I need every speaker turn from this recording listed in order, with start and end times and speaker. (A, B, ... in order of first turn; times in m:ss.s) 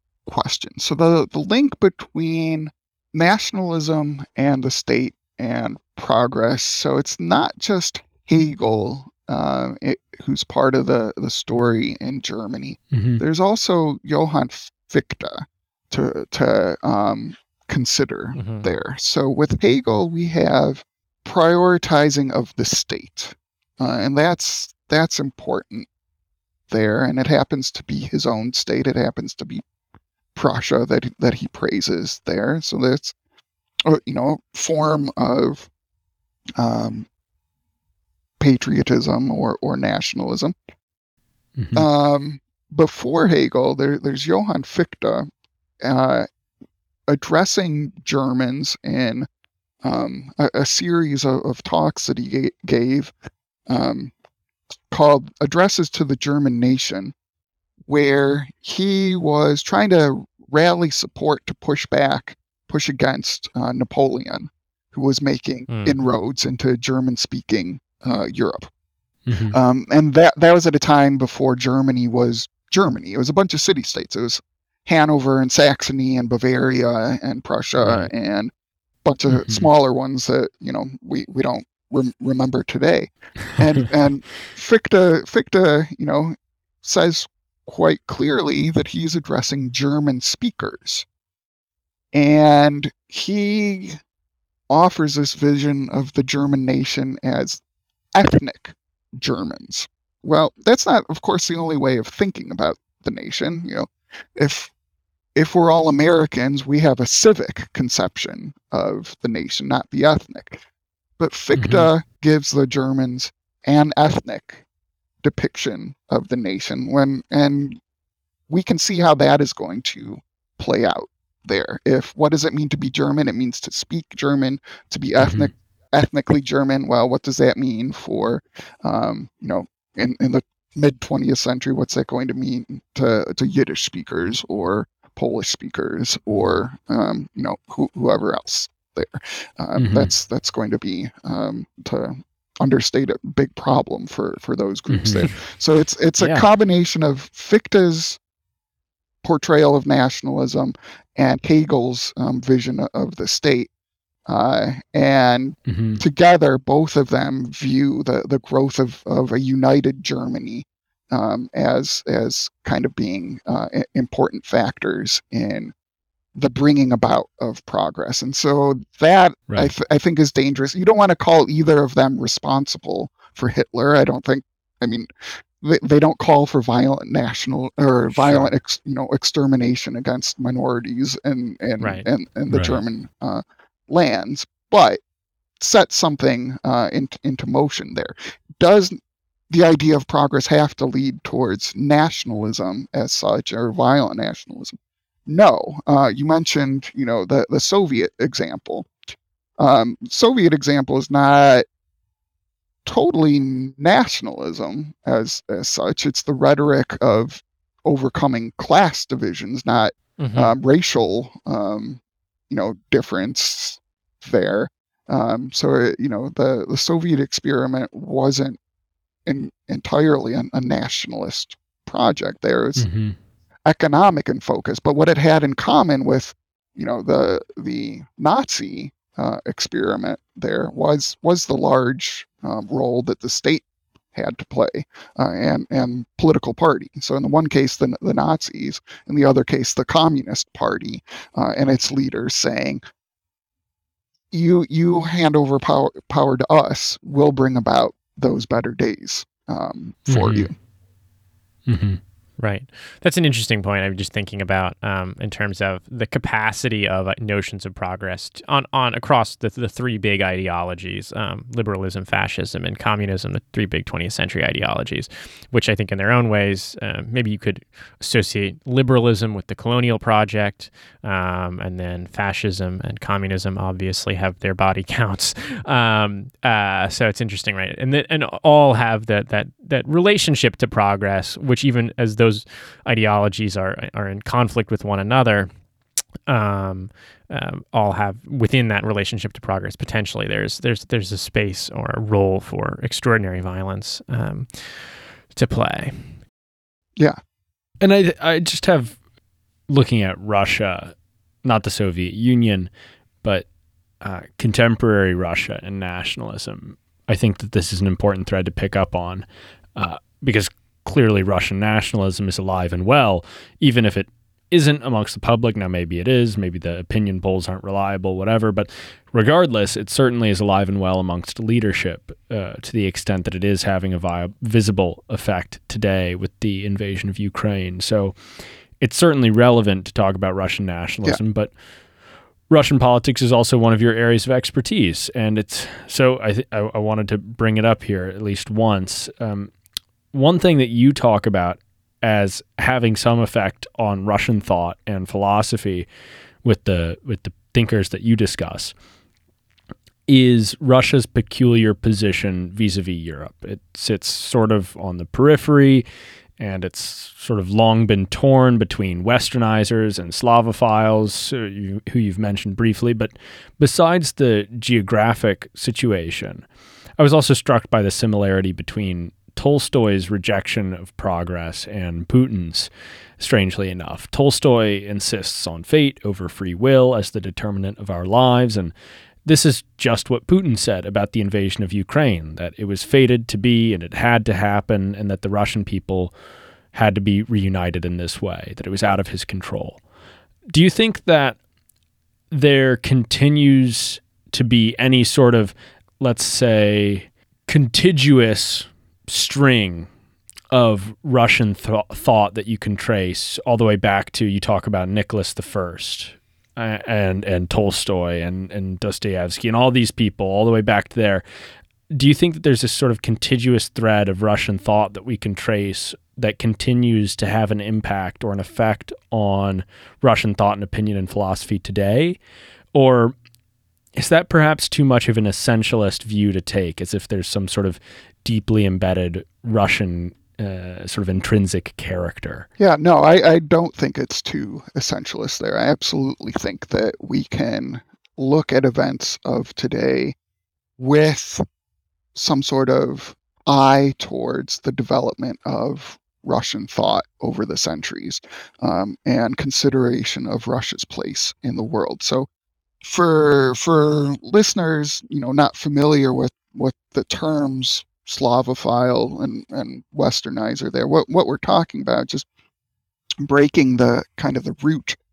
0:00.3-0:25.9 A
0:12.9-0:13.2 B
0:18.3-0:18.7 C
0:26.7-0:29.6 A
0:30.4-0:33.1 A
0:33.9-0:35.7 A
0:36.6-0:37.1 A
0:38.4-0:40.5 A
0:41.6-0:41.9 B
0:41.8-0:45.3 A
0:45.8-0:46.3 A
0:47.1-0:49.3 A
0:49.8-0:53.1 A
0:53.7-0:54.1 A
0:54.9-0:57.1 A
0:57.9-1:08.7 A
1:05.7-1:06.0 C
1:09.3-1:09.6 B
1:09.5-1:18.5 A
1:17.8-1:18.1 B
1:19.0-1:31.1 A
1:19.3-1:19.7 B
1:32.1-1:34.0 A
1:34.7-1:37.6 A
1:38.2-1:44.7 A
1:45.4-1:50.6 A
1:51.2-1:54.6 A
1:51.5-1:51.9 B
1:55.2-1:57.8 A
1:58.5-2:28.2 A
2:05.2-2:05.5 B
2:19.8-2:20.1 B
2:24.9-2:25.3 B
2:26.2-2:26.5 B
2:29.2-2:33.7 A
2:34.3-2:45.7 A
2:35.7-2:36.0 B
2:46.4-2:55.1 A
2:55.6-3:05.0 A
3:01.8-3:02.1 C
3:02.5-3:02.8 B
3:05.6-3:09.0 A
3:09.5-3:18.9 A
3:19.6-3:21.6 A
3:22.9-3:38.6 A
3:30.2-3:30.6 C
3:39.3-3:42.9 A
3:42.8-3:43.2 B
3:43.7-4:02.8 A
4:04.3-4:10.5 A
4:10.1-4:10.5 B
4:11.7-4:12.0 B
4:12.4-4:45.5 C
4:46.3-4:56.1 C
4:57.8-4:59.0 B
4:59.7-5:02.7 B
5:04.0-5:09.2 B
5:09.8-5:28.2 B
5:28.8-5:31.5 B
5:32.5-5:39.5 B
5:40.1-5:45.9 B
5:46.4-5:48.7 B
5:50.1-5:55.8 B
5:56.4-6:06.4 B
6:07.0-6:18.7 B
6:19.2-6:26.1 B
6:26.7-6:29.8 B
6:30.5-6:31.4 B
6:32.3-6:39.9 B
6:40.5-6:51.2 B
6:51.9-7:02.2 B
7:02.7-7:03.1 B
7:04.0-7:12.5 B
7:12.6-7:20.2 A
7:20.8-7:21.4 A
7:22.2-7:32.3 A
7:32.8-7:42.3 A
7:43.2-7:45.0 A